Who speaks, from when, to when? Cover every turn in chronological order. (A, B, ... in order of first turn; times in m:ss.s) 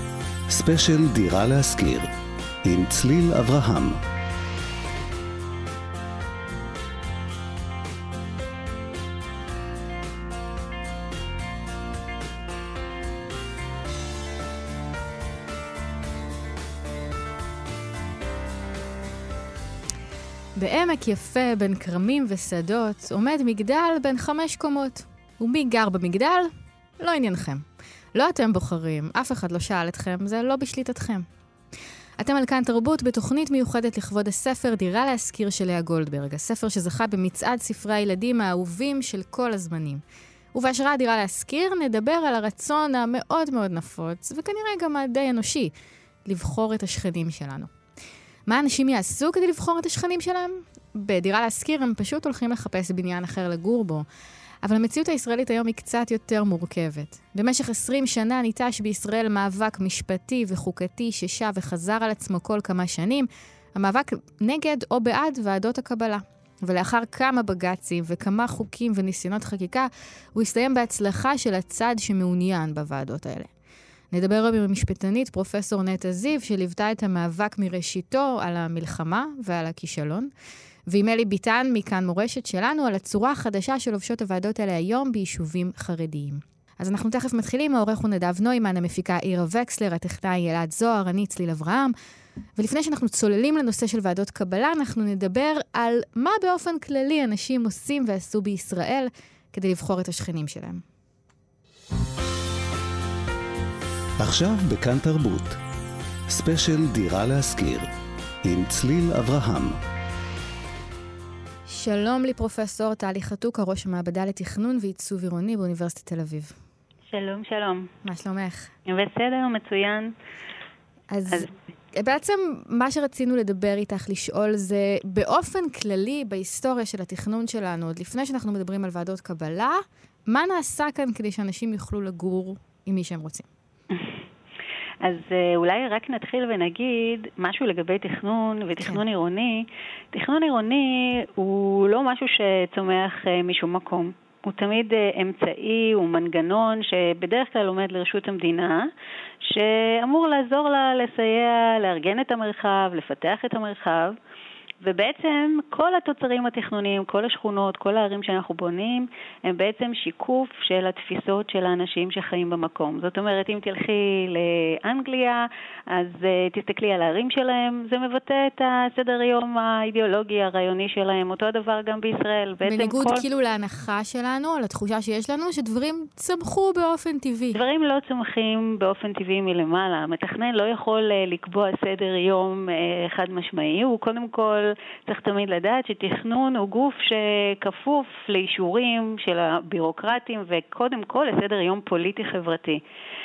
0:00.5-0:02.1 A
0:02.6-0:04.0 A
0:20.5-0:31.3 B
0:32.2-0:40.0 B
0:40.5-0:45.7 B
0:46.2-0:47.7 B
0:48.5-0:54.0 B
0:54.6-1:13.5 B
1:14.1-1:20.3 B
1:20.9-1:31.9 B
1:32.6-1:40.8 B
1:44.2-1:45.6 A
1:46.3-1:47.9 A
1:48.4-1:49.8 A
1:51.7-1:56.5 B
1:57.1-1:57.9 C
1:58.0-1:58.7 B
1:58.8-2:00.1 C
2:01.1-2:13.4 B
2:13.9-2:14.2 C
2:15.0-2:28.9 C
2:29.4-2:34.2 C
2:34.8-2:53.2 C
2:52.6-2:57.6 B
2:57.5-3:12.8 C